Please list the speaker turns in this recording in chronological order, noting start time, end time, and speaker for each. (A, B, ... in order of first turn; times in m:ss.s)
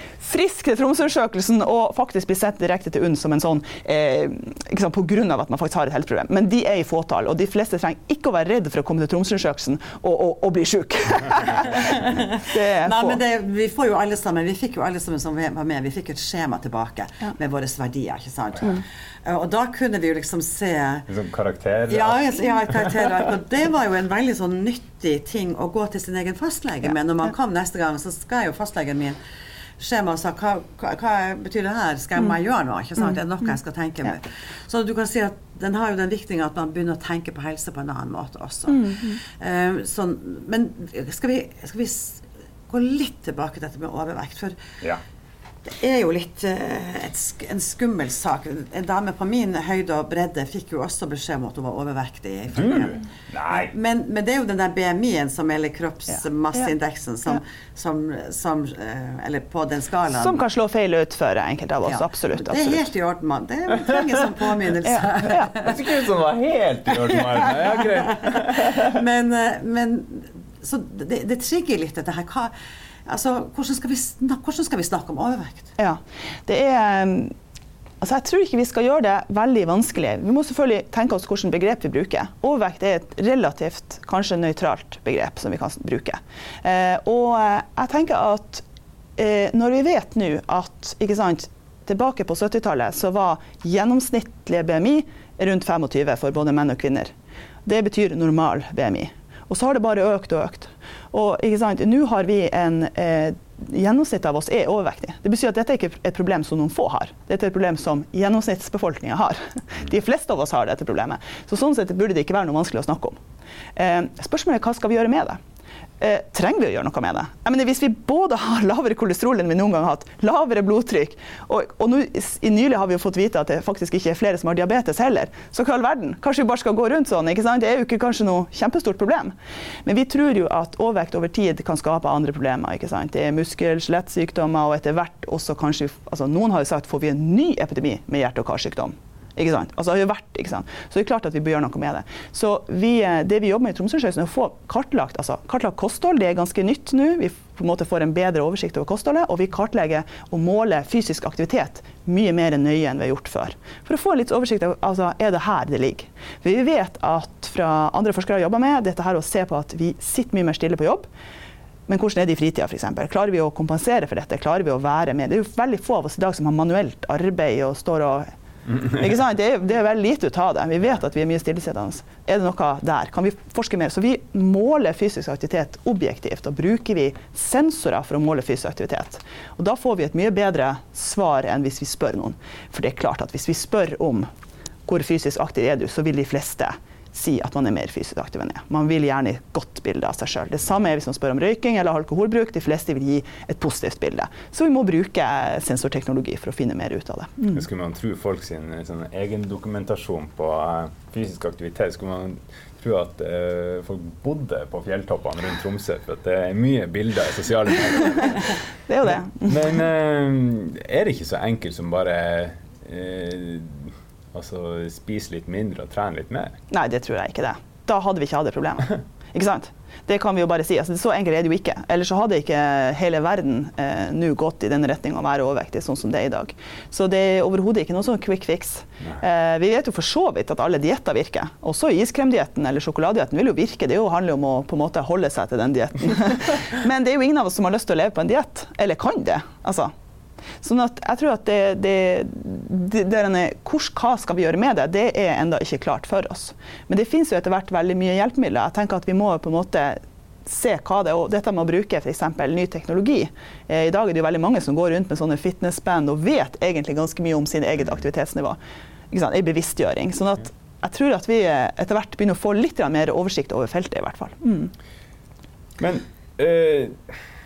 0:00.2-0:13.2 A
0:11.9-0:21.1 B
0:21.1-0:22.2 C
0:21.9-0:29.2 B
0:29.8-0:44.6 B
0:38.7-0:39.2 A
0:45.6-1:00.4 B
0:52.6-0:53.7 C
1:00.1-1:02.8 A
1:01.9-1:05.8 B
1:04.9-1:05.5 A
1:05.6-1:08.9 C
1:07.1-1:12.5 B
1:13.1-1:15.7 B
1:15.8-1:17.3 A
1:18.0-1:28.6 A
1:29.2-1:37.1 A
1:37.6-1:53.2 A
1:53.8-1:55.4 A
1:56.0-2:09.3 A
2:09.8-2:41.1 A
2:41.9-3:04.3 A
3:04.9-3:17.6 A
3:17.5-3:28.6 C
3:28.9-3:29.8 A
3:29.4-3:36.6 C
3:36.7-3:59.9 A
4:00.6-4:18.6 A
4:19.1-4:24.7 A
4:25.8-4:27.2 C